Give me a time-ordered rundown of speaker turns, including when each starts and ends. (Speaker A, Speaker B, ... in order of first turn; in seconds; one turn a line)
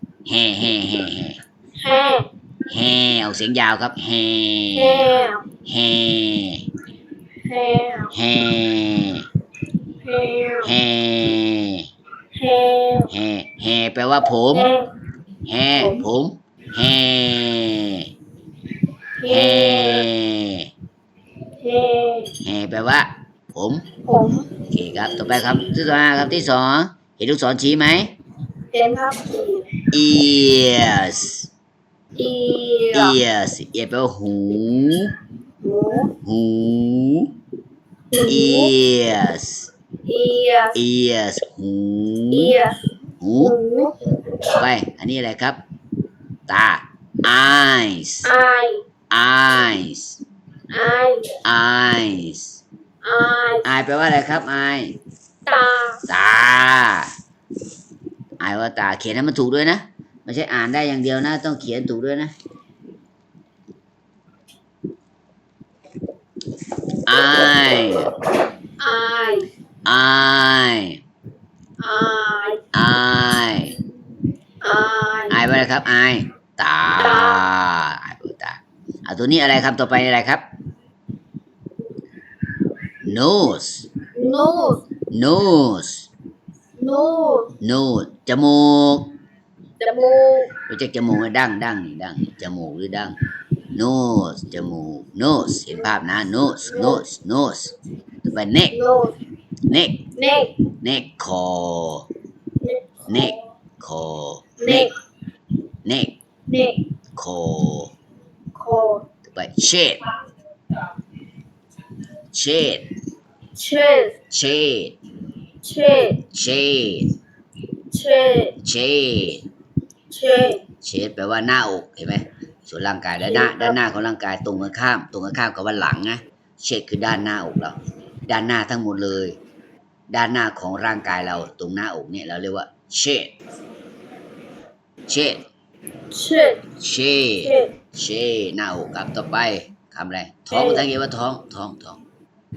Speaker A: 0.2-1.4
Speaker B: 1.8-2.3
Speaker A: 2.7-5.1
Speaker B: 4.7-5.4
Speaker A: 5.6-6.6
Speaker B: 7.4-8.1
Speaker A: 8.1-9.2
Speaker B: 10.0-10.7
Speaker A: 10.6-11.9
Speaker B: 12.3-13.1
Speaker A: 13.1-14.7
Speaker B: 14.5-14.9
Speaker A: 15.5-18.1
Speaker B: 15.8-16.1
Speaker B: 19.2-20.1
Speaker A: 19.3-20.7
Speaker B: 21.6-22.3
Speaker A: 22.4-23.8
Speaker B: 24.1-24.5
Speaker A: 24.7-28.1
Speaker B: 28.7-29.8
Speaker A: 29.9-31.5
Speaker B: 32.1-33.1
Speaker A: 32.9-35.1
Speaker B: 35.6-36.1
Speaker A: 36.2-37.3
Speaker B: 38.1-38.7
Speaker A: 38.2-39.7
Speaker B: 40.1-40.8
Speaker A: 40.8-42.6
Speaker B: 42.3-42.8
Speaker A: 43.2-43.6
Speaker B: 43.4-44.0
Speaker A: 44.5-45.6
Speaker A: 46.5-48.3
Speaker B: 48.2-48.8
Speaker A: 49.1-50.2
Speaker B: 50.7-51.3
Speaker A: 51.4-52.6
Speaker B: 53.0-53.6
Speaker A: 53.6-54.9
Speaker B: 55.5-56.0
Speaker A: 56.1-57.1
Speaker A: 58.4-62.3
Speaker A: 67.1-68.1
Speaker B: 68.8-69.5
Speaker A: 69.9-71.0
Speaker B: 71.8-72.6
Speaker A: 72.7-73.8
Speaker B: 74.6-75.4
Speaker A: 75.3-80.4
Speaker B: 77.0-77.4
Speaker A: 83.0-83.9
Speaker B: 84.1-84.8
Speaker A: 85.1-86.1
Speaker B: 86.8-87.5
Speaker A: 87.6-89.1
Speaker B: 89.8-90.5
Speaker A: 90.7-93.2
Speaker A: 93.7-98.8
Speaker B: 96.7-97.0
Speaker B: 98.7-99.1
Speaker A: 99.7-100.0
Speaker B: 100.2-100.5
Speaker A: 100.8-102.1
Speaker B: 102.6-103.3
Speaker A: 103.1-104.9
Speaker B: 104.6-104.9
Speaker A: 105.8-106.2
Speaker B: 106.5-106.8
Speaker A: 107.2-107.9
Speaker B: 108.6-109.0
Speaker A: 109.2-110.0
Speaker A: 112.3-112.9
Speaker B: 113.6-114.1
Speaker A: 114.3-114.9
Speaker B: 115.6-116.2
Speaker A: 116.3-117.1
Speaker B: 117.9-118.5
Speaker A: 118.6-119.4
Speaker B: 120.1-120.6
Speaker A: 120.8-127.8
Speaker B: 123.2-123.8
Speaker A: 128.3-129.4
Speaker A: 130.1-133.3
Speaker A: 135.1-135.4
Speaker B: 136.1-136.6
Speaker A: 136.8-142.0
Speaker B: 137.4-137.7
Speaker B: 140.5-140.9